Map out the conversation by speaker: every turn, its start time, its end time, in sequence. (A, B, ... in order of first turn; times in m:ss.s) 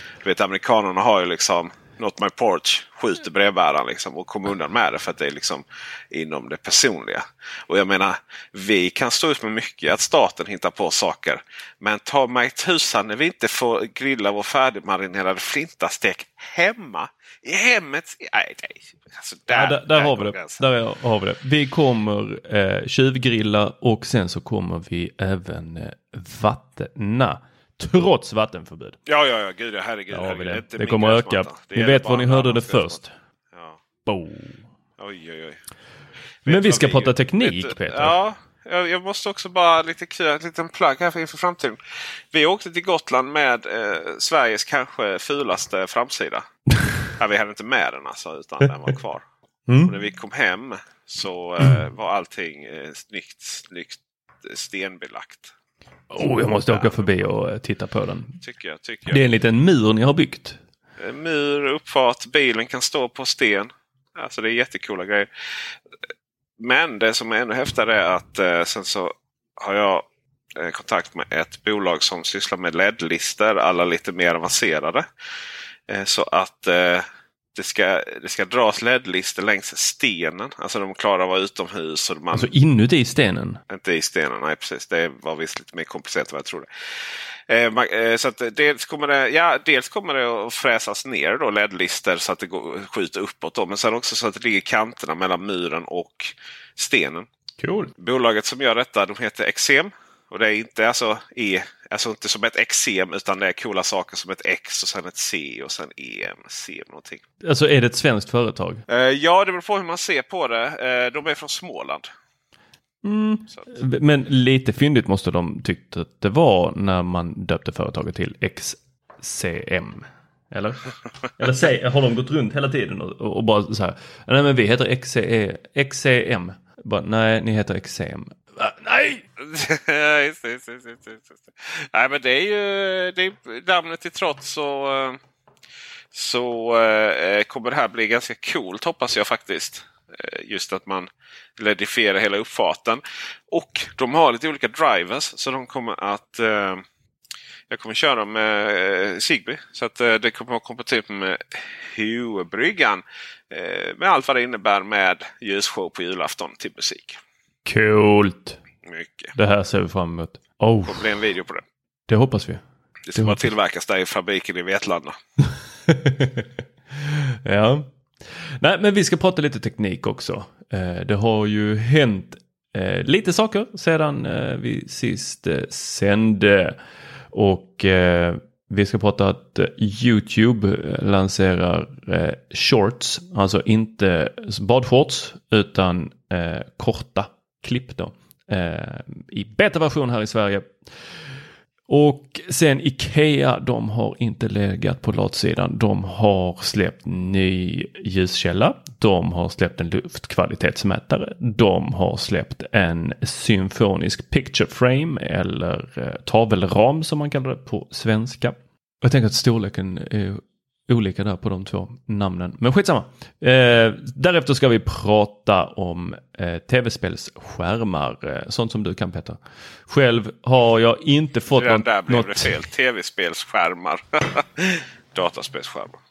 0:00.2-0:20.6 A
0:19.5-0:29.0 B
0:29.1-0:33.0 A
0:30.1-0:33.1 B
0:33.5-0:33.8 A
0:34.1-0:34.6 B
0:35.0-0:35.6 A
0:36.5-0:38.1 B
0:36.5-0:41.8 A
0:42.3-0:46.5 A
0:47.2-0:49.3 A
0:49.7-0:49.9 B
0:49.8-0:55.5 A
0:56.1-0:58.4 B
0:56.6-0:57.3 A
0:58.4-0:59.3 A
0:59.1-1:00.6 B
1:01.0-1:05.7 A
1:06.6-1:15.1 A
1:15.9-1:22.5 A
1:22.3-1:23.6 B
1:23.7-1:37.3 A
1:37.6-1:37.9 B
1:38.0-1:47.2 A
1:47.4-1:48.8 B
1:48.9-1:52.1 A
1:53.0-2:09.2 B
2:09.4-2:15.2 A
2:16.1-2:26.8 A
2:27.7-2:37.2 A
2:37.6-2:38.6 B
2:38.8-2:39.3 A
2:39.4-2:41.0 B
2:40.9-2:41.6 A
2:42.1-2:42.6 B
2:43.0-2:45.2 A
2:43.2-2:43.5 B
2:45.9-2:56.8 B
2:57.3-3:11.2 B
3:11.9-3:42.5 B
3:41.5-3:46.0 A